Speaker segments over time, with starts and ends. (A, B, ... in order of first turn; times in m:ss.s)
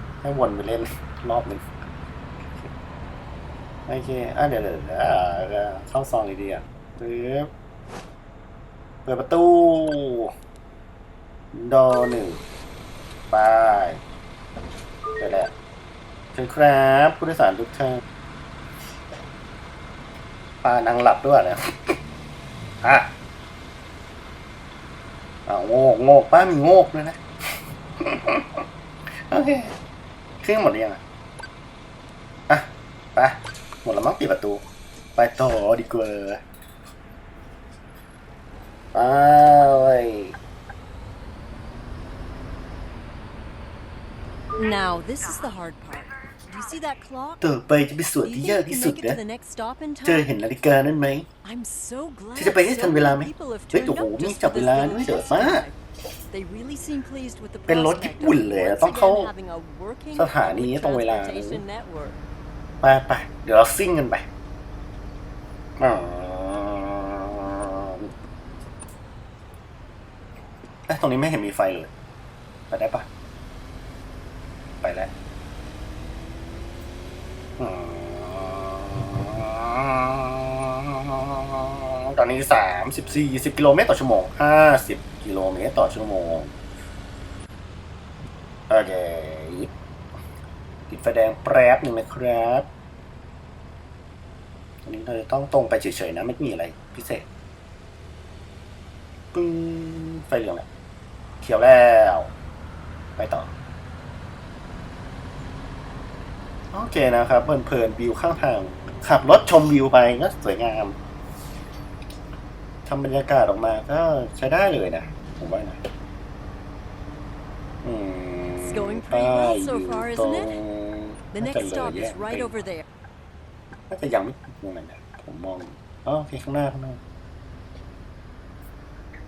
0:00.2-0:01.6 A
0:03.9-0:07.5 A
0:09.0-0:10.3 A
0:11.5-0:12.4 A
0:13.3-0:14.0 A
0:15.2-0:15.5 A
0:16.3-0:18.0 A
0:20.6-0:22.0 A
0:22.8-0:23.1 A
0:25.5-0:28.6 A
0:29.2-0:29.7 A
0:30.4-0:31.0 A
0:32.5-0:34.6 A
0:35.2-0:36.4 A
0:38.9-0:40.3 A
0:44.5-0:47.4 B
0:47.4-0:49.2 A
0:48.2-0:50.3 B
0:50.0-0:51.3 A
0:51.4-0:55.8 B
0:52.4-0:55.6 A
0:56.3-1:02.2 B
0:57.7-0:59.3 A
1:00.1-1:01.6 A
1:02.8-1:04.2 A
1:05.8-1:08.1 A
1:10.9-1:11.9 A
1:12.7-1:13.0 A
1:14.8-1:15.1 A
1:17.6-1:26.5 A
1:28.7-1:29.7 A
1:30.9-1:32.7 A
1:34.8-1:37.2 A
1:39.3-1:40.6 A
1:41.4-1:42.3 A
1:43.2-1:43.5 A
1:46.7-1:50.9 A
1:52.8-1:55.8 A
1:57.8-2:02.5 A
1:58.6-2:00.6 B
2:01.3-2:02.8 B
2:03.9-2:07.0 A